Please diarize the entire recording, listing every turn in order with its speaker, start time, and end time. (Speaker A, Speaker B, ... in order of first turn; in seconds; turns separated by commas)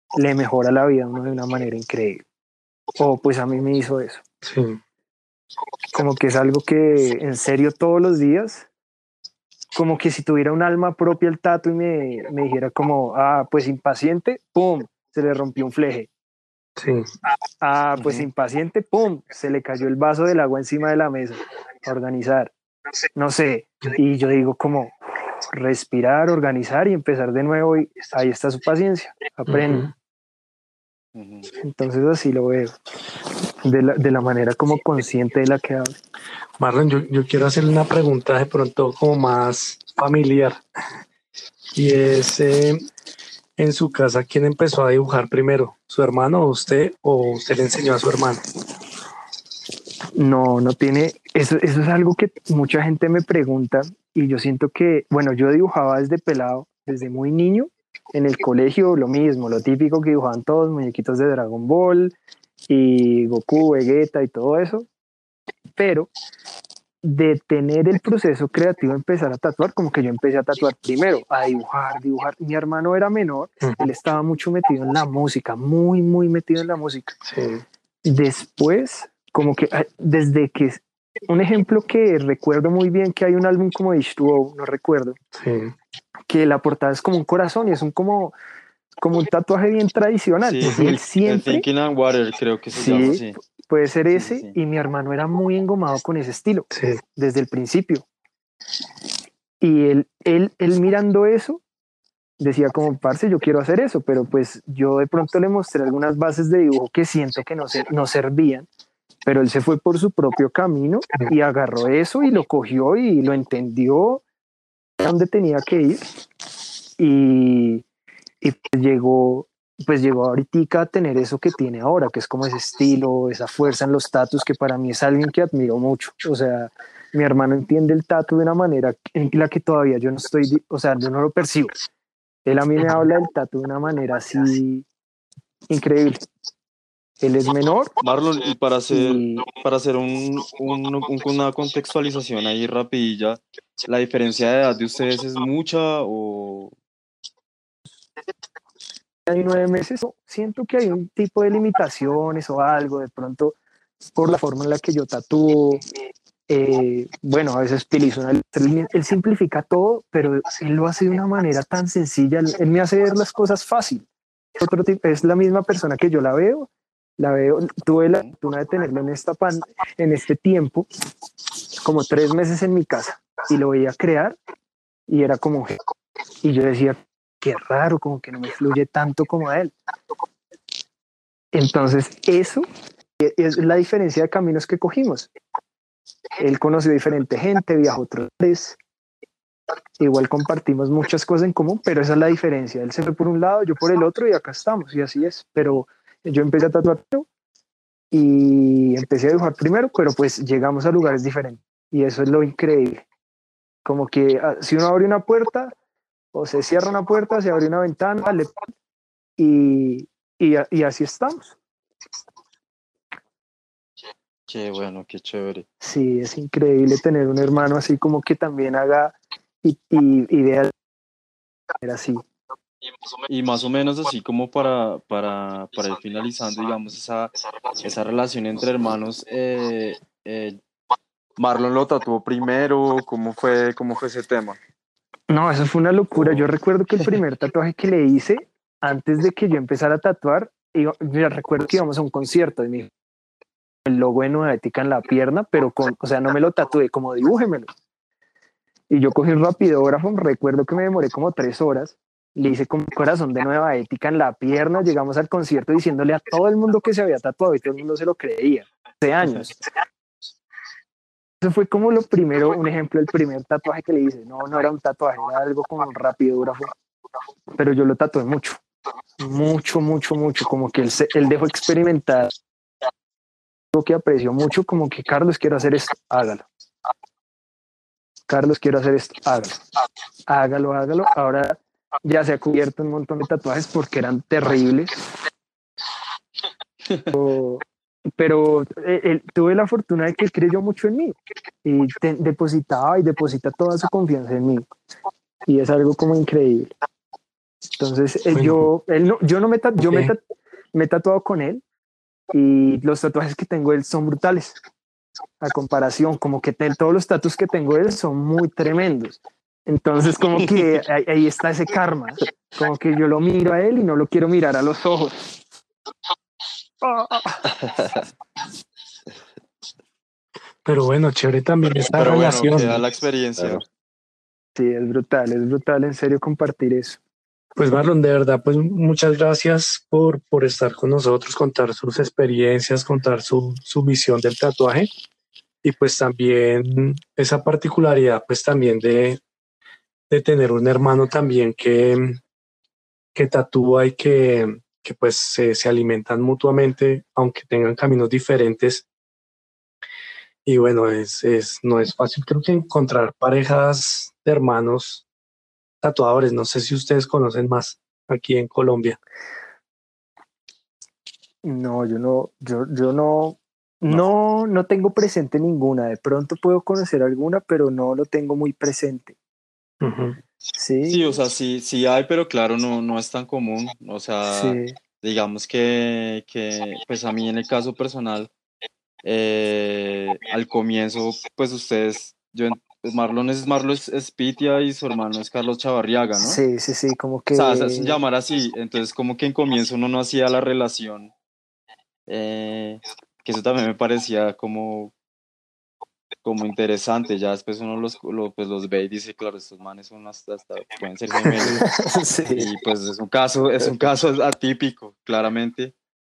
Speaker A: 0.1-2.2, Speaker A: 3.0-4.2, Speaker B: 4.4-4.8, Speaker A: 5.9-8.7, Speaker A: 9.7-16.1, Speaker B: 16.8-17.1, Speaker A: 17.6-22.5, Speaker B: 18.0-18.3, Speaker A: 23.1-24.9, Speaker A: 25.5-29.9, Speaker B: 29.5-29.9, Speaker C: 31.1-31.5, Speaker A: 31.6-32.7, Speaker A: 33.6-36.0, Speaker B: 36.6-40.6, Speaker B: 41.7-42.8, Speaker B: 43.6-48.4, Speaker A: 50.1-62.1, Speaker A: 62.7-64.9, Speaker A: 65.8-66.1, Speaker A: 67.0-77.2, Speaker B: 73.6-73.9, Speaker B: 77.2-77.6, Speaker A: 78.0-85.2, Speaker B: 85.3-85.7, Speaker A: 86.3-88.3, Speaker A: 89.0-91.6, Speaker C: 90.4-93.3, Speaker B: 90.6-90.9, Speaker A: 92.7-98.0, Speaker C: 94.1-94.5, Speaker B: 96.7-97.0, Speaker A: 99.6-101.6, Speaker A: 102.4-108.7, Speaker A: 109.2-114.2, Speaker A: 115.0-116.0, Speaker A: 117.0-117.8, Speaker A: 118.4-131.7, Speaker A: 132.4-134.8, Speaker A: 135.7-136.2, Speaker A: 137.2-137.9, Speaker C: 138.0-146.7, Speaker A: 138.9-139.4, Speaker A: 149.2-153.6, Speaker A: 154.2-155.8, Speaker A: 156.5-164.1, Speaker A: 164.6-170.9, Speaker A: 171.8-174.4, Speaker A: 175.1-175.8, Speaker A: 176.4-179.7, Speaker A: 181.5-182.7, Speaker A: 183.2-185.3, Speaker A: 186.4-188.8, Speaker A: 190.0-197.2, Speaker A: 198.1-203.0, Speaker A: 203.8-205.7, Speaker A: 206.3-208.5, Speaker A: 209.4-211.5, Speaker C: 214.5-215.7, Speaker A: 215.8-220.7, Speaker A: 221.8-222.2, Speaker C: 223.3-230.6, Speaker C: 231.4-234.6, Speaker A: 235.3-242.9, Speaker A: 243.8-247.7, Speaker A: 248.9-259.7, Speaker A: 261.4-266.7, Speaker A: 267.5-268.6, Speaker A: 269.2-272.3, Speaker A: 273.7-276.4, Speaker A: 278.3-279.6, Speaker A: 280.3-285.0, Speaker A: 287.1-287.6, Speaker A: 288.2-294.6, Speaker A: 295.5-296.7, Speaker A: 297.8-300.2, Speaker B: 298.3-298.6, Speaker B: 299.8-300.1, Speaker A: 300.7-301.6, Speaker A: 302.3-304.6, Speaker A: 305.4-315.3, Speaker A: 316.8-317.5, Speaker B: 320.6-322.8, Speaker C: 321.9-323.6, Speaker A: 324.6-327.0, Speaker B: 327.6-334.9, Speaker B: 335.6-339.2, Speaker B: 340.1-342.2, Speaker B: 343.1-348.9, Speaker B: 350.4-355.0, Speaker B: 355.8-359.0, Speaker A: 361.4-369.1, Speaker B: 369.8-370.2, Speaker A: 370.5-371.1, Speaker C: 370.9-378.3, Speaker A: 374.3-374.8, Speaker C: 379.0-386.4, Speaker A: 386.2-388.0, Speaker C: 387.3-391.1, Speaker C: 392.1-394.9, Speaker C: 396.2-401.6, Speaker A: 401.3-402.5, Speaker C: 402.4-405.7